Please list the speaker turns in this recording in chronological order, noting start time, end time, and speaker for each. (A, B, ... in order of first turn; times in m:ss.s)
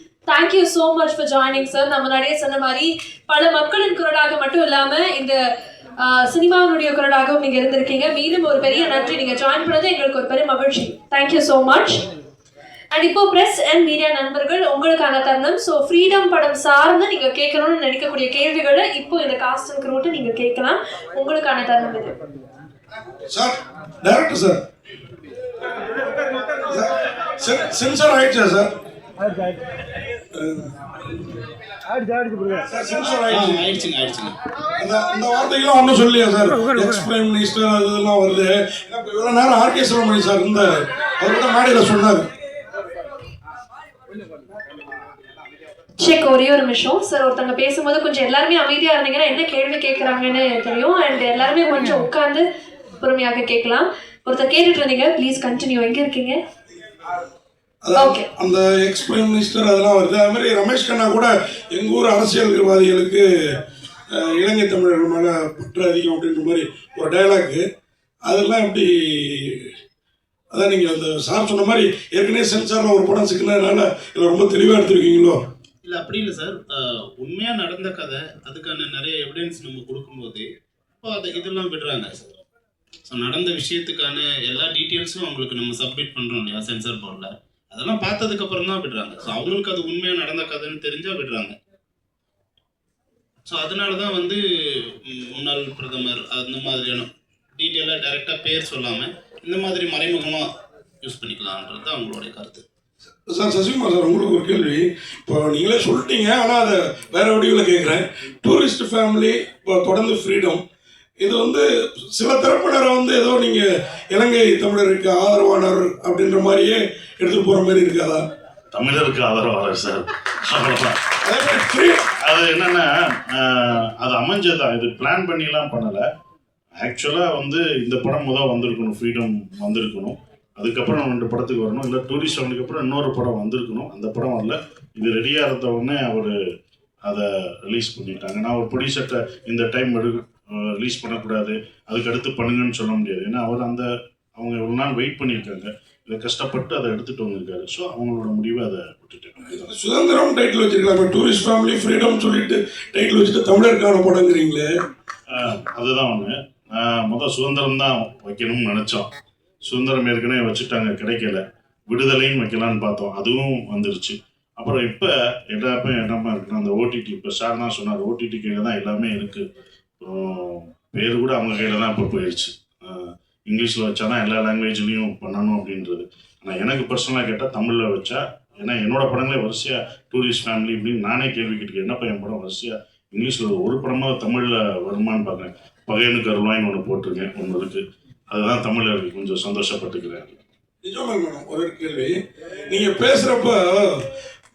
0:00.3-0:05.4 A
0:06.0-0:12.0 A
0:12.9-0:22.1 A
0:23.3-0:24.6 B
0:26.7-0:28.7 B
0:30.4-0:30.7 B
0:32.6-0:33.6 B
0:33.3-0:34.3 C
0:34.8-0:42.2 B
0:46.0-0:52.4 A
0:53.0-0:56.4 A
0:57.9-1:03.2 B
0:58.0-0:58.3 A
1:04.2-1:07.6 B
1:08.2-1:08.9 B
1:10.5-1:15.4 B
1:15.8-1:16.6 C
1:17.2-1:20.4 C
1:21.0-1:22.4 C
1:23.1-1:31.6 C
1:33.5-1:34.4 C
1:35.1-1:40.4 C
1:41.0-1:42.6 C
1:43.3-1:50.6 B
1:51.2-1:58.2 B
1:58.7-2:01.0 D
2:01.2-2:02.0 B
2:02.2-2:06.0 D
2:06.8-2:16.3 D
2:17.0-2:29.6 D
2:29.5-2:34.6 B
2:35.3-2:39.0 D
2:39.6-2:49.4 D
2:50.0-3:10.4 D
3:10.8-3:12.1 B
3:12.7-3:14.0 B